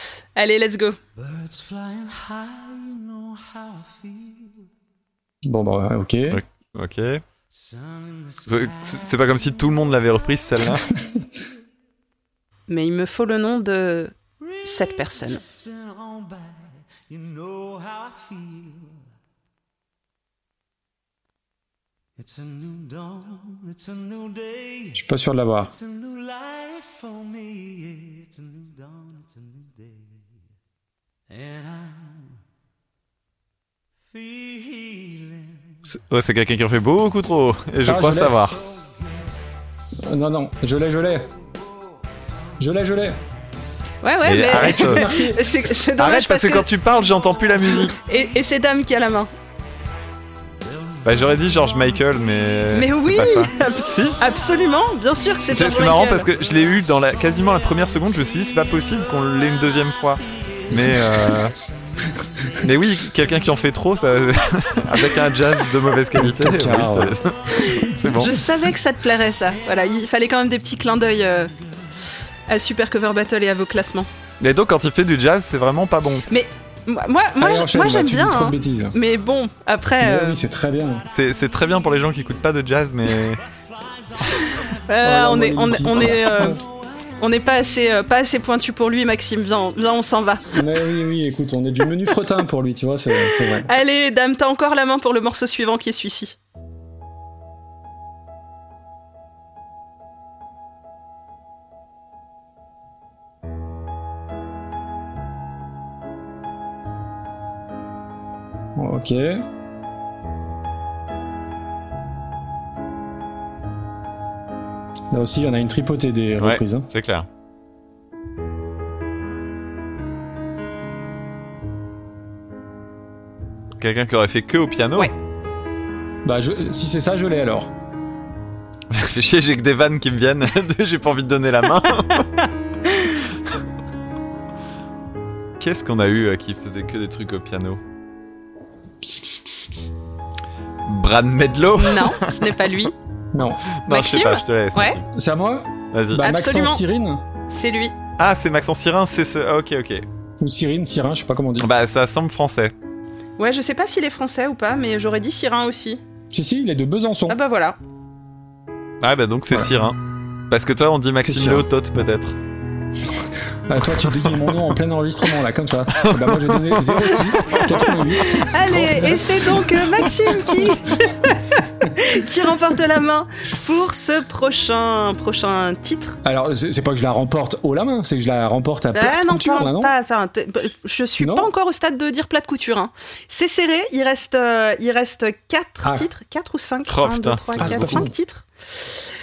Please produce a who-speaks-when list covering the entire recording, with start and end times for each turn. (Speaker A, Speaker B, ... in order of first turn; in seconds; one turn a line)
Speaker A: 0.3-1.0
Speaker B: 1.9-2.5
Speaker B: 3.5-3.9
Speaker C: 5.4-6.4
Speaker D: 6.3-7.2
Speaker D: 8.4-10.9
Speaker A: 12.7-15.4
Speaker B: 16.1-16.3
Speaker B: 17.3-18.6
Speaker B: 22.3-24.6
Speaker C: 24.9-25.7
Speaker B: 25.9-28.1
Speaker D: 35.8-38.6
Speaker C: 37.8-38.6
Speaker C: 40.0-41.3
Speaker C: 42.6-43.2
Speaker A: 44.0-46.7
Speaker D: 44.2-45.1
Speaker C: 44.5-45.5
Speaker D: 46.0-48.0
Speaker A: 47.9-49.3
Speaker D: 51.0-54.2
Speaker A: 52.7-56.3
Speaker D: 55.5-61.5
Speaker C: 60.7-61.2
Speaker D: 62.6-68.4
Speaker C: 66.1-67.2
Speaker A: 68.0-71.5
Speaker A: 72.5-74.1
Speaker D: 74.4-76.2
Speaker A: 76.3-80.4
Speaker C: 77.4-79.0
Speaker C: 80.0-81.0
Speaker D: 81.1-83.4
Speaker A: 84.5-86.6
Speaker C: 85.0-86.6
Speaker A: 87.2-90.5
Speaker C: 90.5-93.7
Speaker A: 93.2-96.3
Speaker C: 108.8-109.4
Speaker C: 115.1-116.9
Speaker D: 116.4-117.3
Speaker D: 123.8-125.1
Speaker C: 126.2-127.7
Speaker D: 128.9-132.3
Speaker A: 132.9-133.2
Speaker D: 135.6-137.8
Speaker D: 140.8-142.5
Speaker A: 141.8-142.9
Speaker C: 143.3-143.7
Speaker D: 143.8-145.1
Speaker A: 143.9-145.0
Speaker C: 145.1-147.2
Speaker D: 145.9-146.2
Speaker A: 146.2-146.8
Speaker A: 147.5-147.9
Speaker D: 148.2-150.0
Speaker C: 150.4-151.7
Speaker D: 151.6-152.7
Speaker A: 153.4-156.0
Speaker C: 156.3-157.4
Speaker A: 157.3-157.8
Speaker D: 159.0-160.0
Speaker D: 160.5-162.3
Speaker C: 161.2-161.7
Speaker C: 163.1-170.0
Speaker D: 166.0-167.7
Speaker A: 168.5-176.2
Speaker C: 176.2-179.9
Speaker A: 178.9-188.9
Speaker C: 181.2-181.5
Speaker D: 186.9-188.0
Speaker C: 187.6-188.1